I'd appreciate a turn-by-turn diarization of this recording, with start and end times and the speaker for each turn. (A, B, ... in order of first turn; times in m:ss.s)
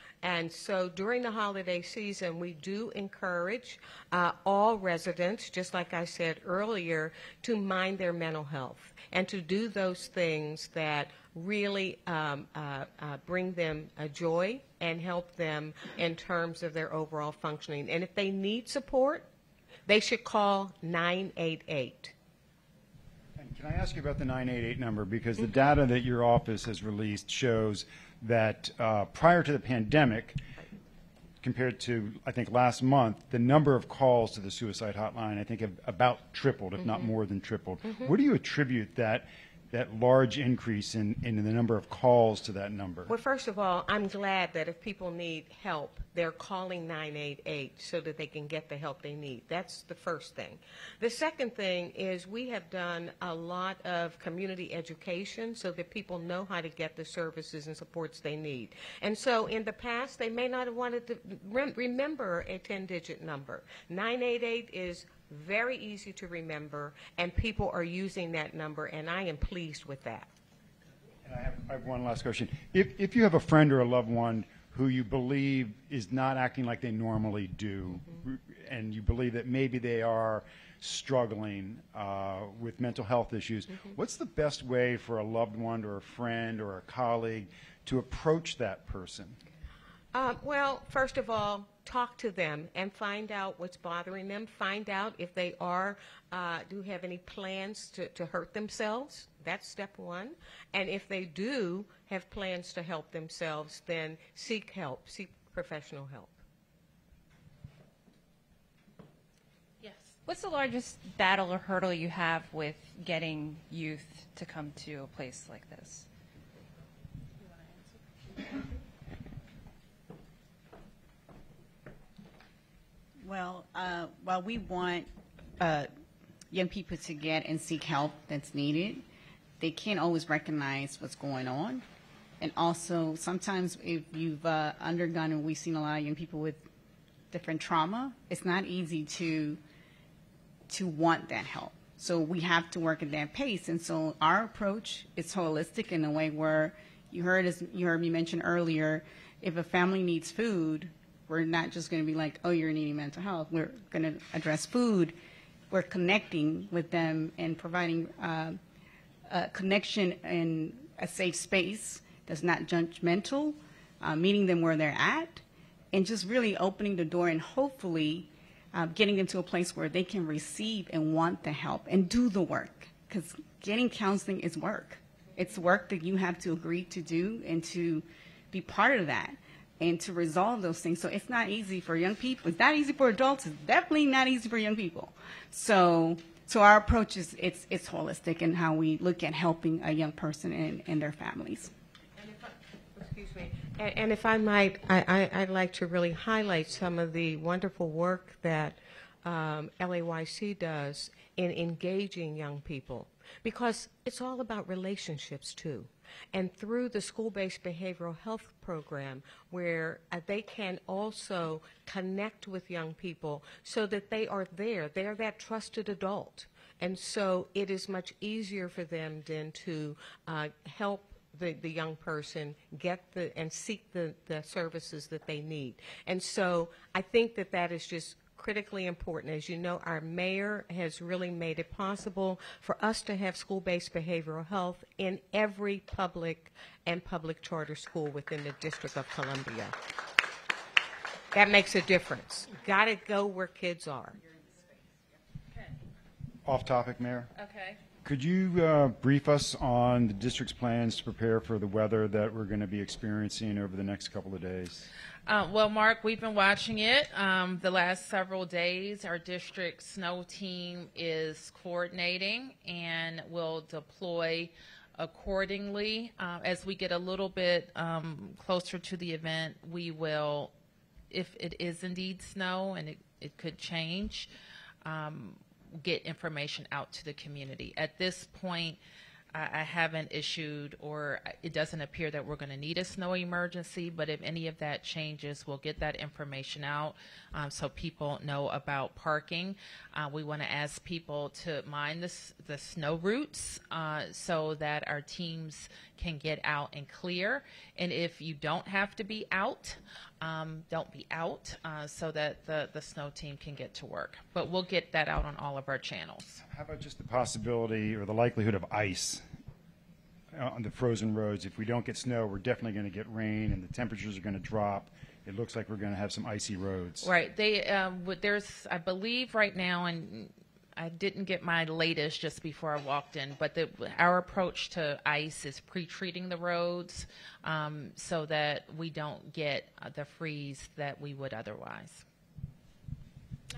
0:00.2-0:19.3 A
0:19.9-0:22.1 A
0:23.4-0:30.4 B
0:31.4-0:43.1 B
0:37.8-0:38.1 A
0:43.1-1:10.3 A
1:11.2-1:29.4 B
1:30.1-1:46.4 A
1:49.8-1:50.2 C
1:50.3-1:56.1 D
1:57.4-1:58.0 C
2:03.2-2:05.9 E
2:06.5-2:09.0 E
2:09.6-2:11.8 E
2:12.4-2:16.6 E
2:17.3-2:19.6 E
2:20.7-2:35.2 E
2:35.7-2:38.6 E
2:39.3-3:11.7 E
3:12.2-3:59.8 A
4:01.3-4:04.5 A
4:06.4-4:07.3 B
4:07.4-4:07.8 C
4:08.0-4:14.9 B
4:15.3-4:30.5 C
4:31.1-4:34.3 C
4:34.8-4:38.8 C
4:39.3-5:06.4 C
5:06.5-5:09.2 B
5:10.3-5:17.1 B
5:17.0-5:32.0 C